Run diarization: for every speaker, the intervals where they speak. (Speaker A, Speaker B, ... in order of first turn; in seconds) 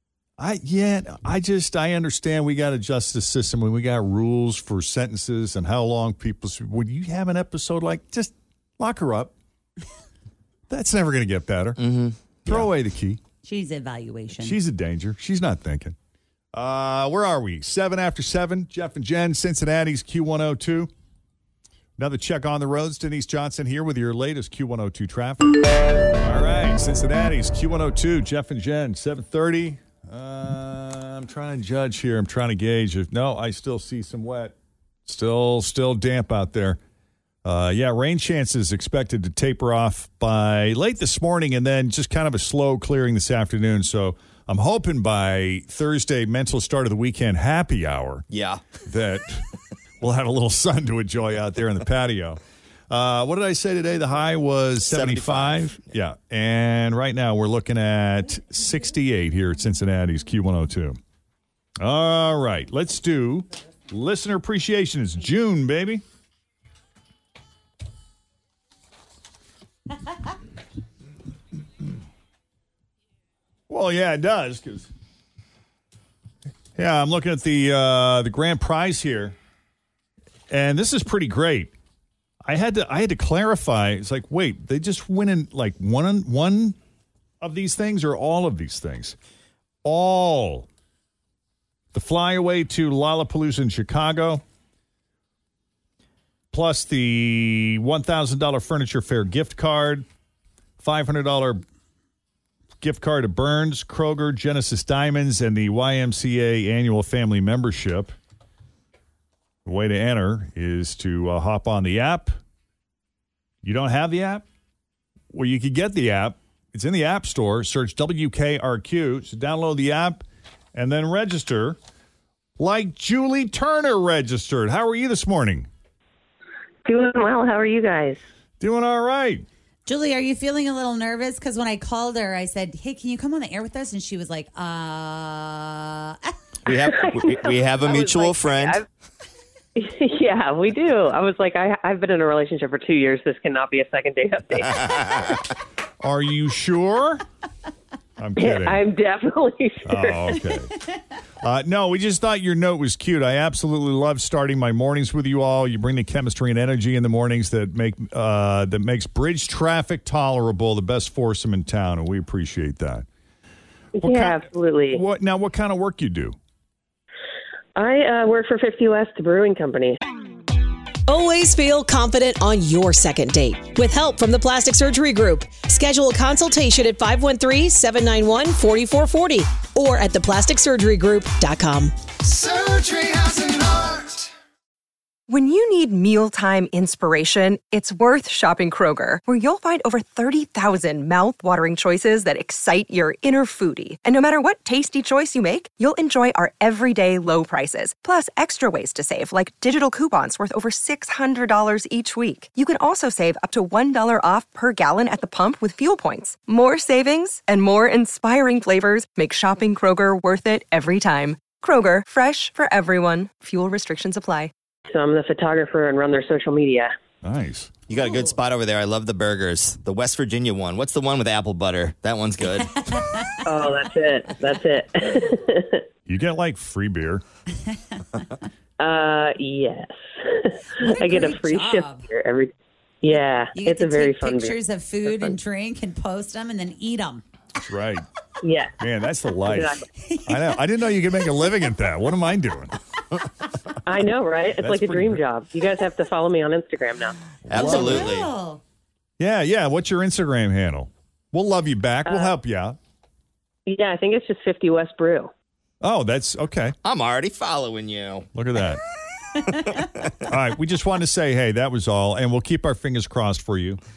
Speaker A: 0.4-9.3, 10.7-11.8, 12.4-13.2, 14.4-16.0, 16.5-20.9, 22.0-36.8, 37.4-48.2, 48.9-49.5, 50.0-61.0, 61.8-66.0, 73.7-74.9, 76.8-79.4, 80.5-81.7, 82.4-86.8, 87.4-89.2, 89.8-90.7, 91.9-94.4, 96.5-100.1, 100.8-101.6, 102.8-108.1, 109.7-112.4, 113.6-114.5, 115.3-121.8, 122.6-125.7, 128.6-129.5, 146.0-147.2, 148.2-148.8, 149.8-150.7, 151.4-163.1, 164.0-166.4, 182.6-183.1, 217.2-217.7, 226.1-227.2, 237.6-238.1, 238.8-242.8, 244.6-245.2, 247.5-248.2, 249.2-252.8, 255.8-256.8, 258.4-258.8, 260.2-263.8
Speaker B: 11.8-12.7, 48.3-48.6, 54.9-55.9, 136.7-138.8, 144.7-145.3, 217.9-223.1, 247.5-248.3, 256.8-258.3, 259.4-260.2
Speaker C: 13.4-14.6, 129.9-136.3, 222.8-223.4, 227.7-228.1, 230.8-232.1, 233.1-237.2, 240.0-240.6, 247.5-248.6
Speaker D: 126.8-128.2, 136.7-138.8, 139.8-145.4, 148.4-150.6, 164.0-165.0, 167.8-170.0, 214.9-216.9, 223.4-225.8, 228.8-234.6, 238.4-238.8, 239.4-239.9, 243.8-247.2, 252.1-252.3, 253.7-255.3
Speaker E: 171.1-182.4
Speaker F: 185.3-214.5